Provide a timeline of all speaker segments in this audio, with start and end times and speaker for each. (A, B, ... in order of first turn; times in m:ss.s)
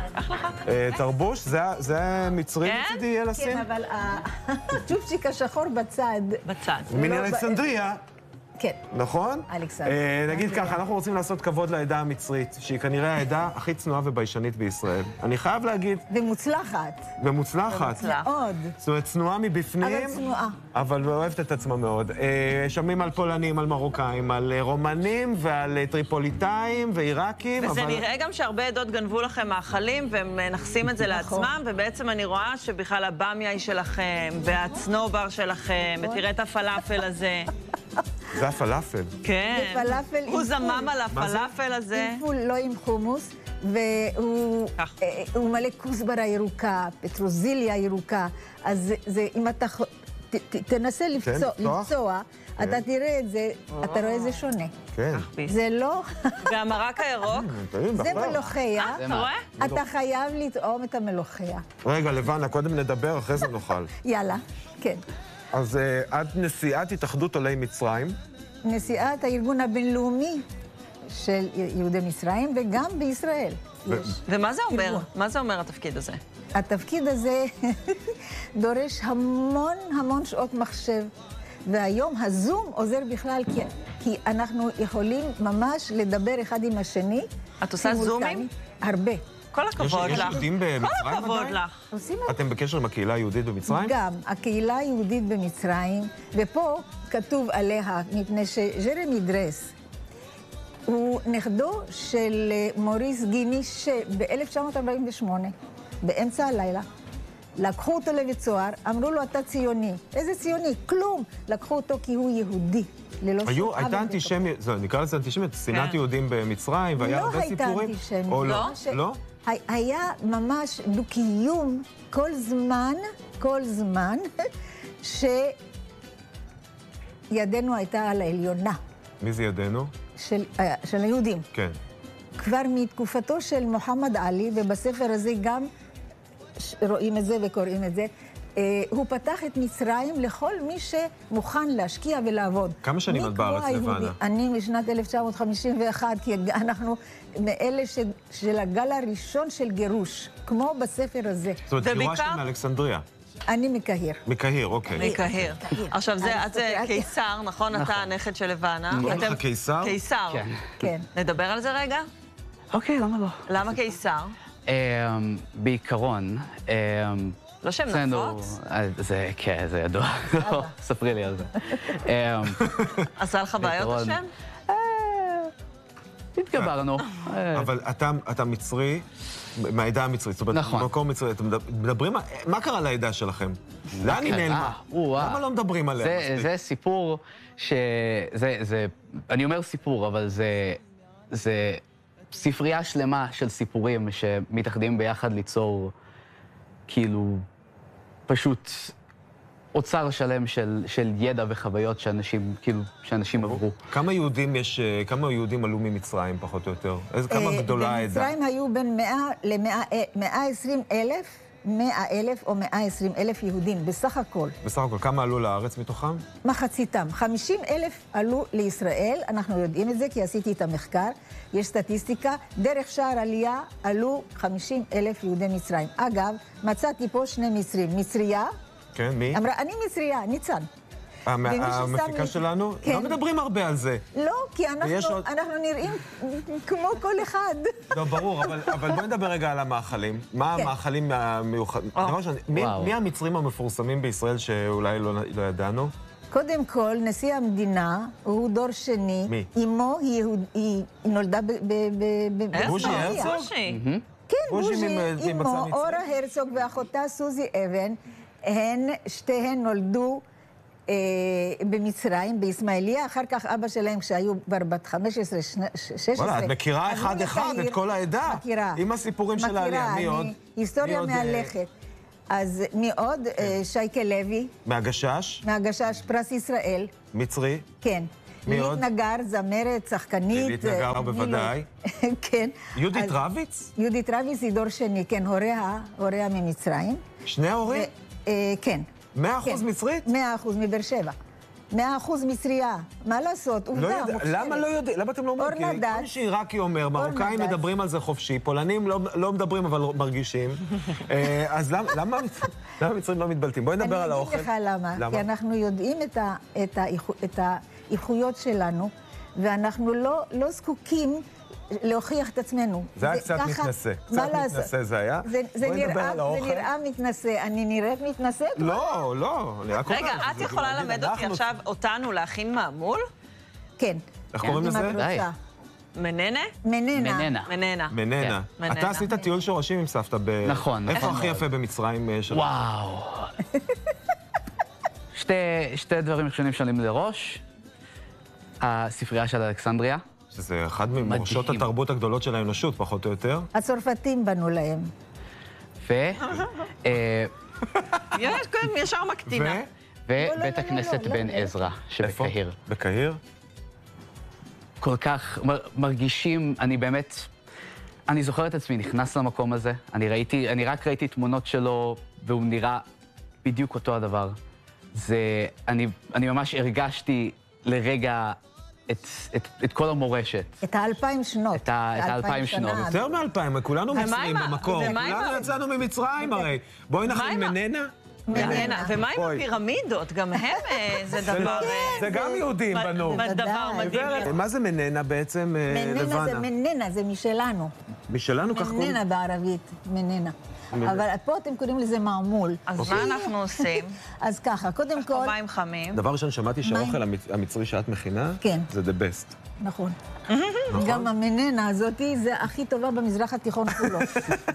0:00.1-0:00.6 A
0:00.6-0:03.7 B
0:02.6-0:03.0 A
0:03.3-0:07.6 C
0:06.4-0:06.9 A
0:06.9-0:08.0 B
0:08.9-0:16.0 B
0:09.5-0:10.8 C
0:16.1-0:17.1 C
0:17.2-0:18.1 B
0:17.7-0:18.3 A
0:18.0-0:18.7 C
0:18.8-0:28.1 B
0:19.8-0:20.6 C
0:27.6-0:37.5 A
0:31.0-0:31.5 C
0:38.3-0:39.1 B
0:39.2-0:42.2 A
0:39.5-0:41.3 C
0:41.1-0:41.5 B
0:41.9-0:54.7 C
0:51.2-0:51.9 B
0:53.8-0:54.4 A
0:54.9-0:55.3 B
0:55.1-0:55.6 A
0:55.5-0:56.6 C
0:56.4-0:57.6 A
0:57.3-0:58.5 B
0:57.9-0:59.0 C
0:58.0-0:59.3 D
0:58.8-0:59.5 A
0:59.6-0:59.8 B
0:59.6-1:01.6 C
1:01.8-1:03.9 B
1:04.0-1:05.0 C
1:05.5-1:08.2 B
1:08.6-1:10.4 C
1:11.1-1:15.1 C
1:13.9-1:14.2 B
1:14.3-1:16.2 A
1:16.5-1:21.1 C
1:21.7-1:27.3 C
1:27.6-1:28.5 A
1:27.8-1:29.2 C
1:29.5-1:31.8 A
1:29.8-1:31.6 B
1:31.9-1:32.4 C
1:32.2-1:33.9 B
1:33.7-1:39.7 C
1:40.9-1:46.8 C
1:47.6-1:54.4 C
1:53.4-1:59.2 B
1:55.7-1:56.0 A
1:57.0-2:04.2 C
1:58.4-1:58.8 A
2:05.0-2:05.6 C
2:07.3-2:08.8 C
2:09.2-2:09.9 B
2:10.2-2:11.4 C
2:12.4-2:15.7 C
2:16.6-2:31.6 C
2:22.8-2:24.2 B
2:31.7-2:33.0 B
2:31.8-2:32.4 A
2:33.5-2:34.2 C
2:34.2-2:35.2 B
2:34.9-2:37.1 C
2:34.9-2:40.4 A
2:37.7-2:38.1 D
2:38.9-2:39.3 D
2:39.0-2:40.0 B
2:40.3-2:40.9 D
2:40.8-2:41.0 C
2:41.1-2:42.0 A
2:42.7-2:43.4 D
2:43.5-2:44.3 A
2:44.7-2:52.6 D
2:47.6-2:48.5 A
2:50.4-2:50.7 C
2:52.7-2:53.0 B
2:53.2-2:54.3 A
2:53.6-2:55.5 D
2:56.4-2:57.7 D
2:56.5-2:56.8 B
2:57.5-3:06.5 B
3:00.5-3:00.9 D
3:03.9-3:05.4 D
3:06.0-3:10.8 D
3:11.3-3:15.9 D
3:16.9-3:17.4 D
3:18.3-3:18.9 D
3:19.7-3:23.8 D
3:23.9-3:28.3 B
3:27.3-3:34.5 C
3:34.6-3:36.2 B
3:36.4-3:48.5 C
3:48.9-3:49.4 B
3:49.3-3:50.7 C
3:51.2-3:54.0 B
3:51.4-3:53.2 C
3:54.1-3:59.0 C
3:54.8-3:55.3 B
3:57.9-4:05.9 B
4:02.5-4:02.9 D
4:06.3-4:13.5 C
4:12.5-4:13.8 A
4:12.6-4:13.4 B
4:13.7-4:14.0 D
4:14.3-4:20.2 C
4:14.5-4:16.0 B
4:20.9-4:28.8 C
4:26.2-4:31.5 B
4:29.4-4:31.7 C
4:32.3-4:34.5 C
4:34.6-4:35.4 B
4:35.4-4:36.9 C
4:37.1-4:37.7 B
4:37.8-4:43.2 C
4:38.4-4:38.9 B
4:40.3-4:41.7 B
4:42.7-4:43.7 B
4:43.8-4:47.0 C
4:47.2-4:47.9 B
4:47.6-4:48.9 C
4:49.1-4:50.1 B
4:49.4-4:51.1 C
4:51.7-4:54.6 C
4:53.7-5:05.2 B
4:55.4-4:56.1 C
4:57.0-4:57.6 C
5:03.8-5:11.2 C
5:11.7-5:14.7 C
5:13.0-5:16.7 B
5:15.2-5:18.8 C
5:18.6-5:21.5 B
5:19.8-5:23.0 A
5:23.8-5:25.3 C
5:24.3-5:25.0 B
5:24.4-5:25.3 D
5:26.0-5:26.5 A
5:26.6-5:27.3 C
5:26.9-5:27.5 D
5:27.4-5:28.0 A
5:27.9-5:32.6 B
5:28.6-5:29.2 A
5:30.4-5:31.5 D
5:32.3-5:33.3 D
5:35.1-5:37.4 D
5:38.6-5:40.0 D
5:40.3-5:43.5 B
5:41.0-5:41.7 D
5:43.5-5:44.9 C
5:45.8-5:46.3 D
5:46.8-5:47.3 D
5:47.7-5:48.2 B
5:48.1-5:49.6 A
5:49.2-5:49.7 B
5:50.1-5:52.6 D
5:50.2-5:51.6 C
5:52.0-5:53.2 B
5:54.8-5:57.3 D
5:58.1-6:02.8 D
6:03.4-6:04.4 D
6:04.9-6:10.6 D
6:10.6-6:13.0 C
6:11.5-6:12.9 D
6:12.8-6:19.4 B
6:13.9-6:15.5 A
6:14.7-6:15.6 C
6:16.2-6:16.5 C
6:17.0-6:17.6 A
6:18.3-6:18.9 C
6:18.3-6:22.1 A
6:20.7-6:24.3 C
6:21.3-6:26.5 B
6:22.7-6:24.4 A
6:25.7-6:27.7 C
6:28.1-6:29.0 B
6:28.5-6:35.3 C
6:30.7-6:31.0 B
6:32.7-6:34.0 A
6:32.8-6:33.1 B
6:35.0-6:36.0 A
6:35.9-6:39.4 B
6:36.6-6:37.0 C
6:38.4-6:38.7 C
6:39.6-6:39.9 C
6:40.3-6:40.7 A
6:40.7-6:41.1 B
6:40.7-6:44.1 C
6:43.7-6:44.4 B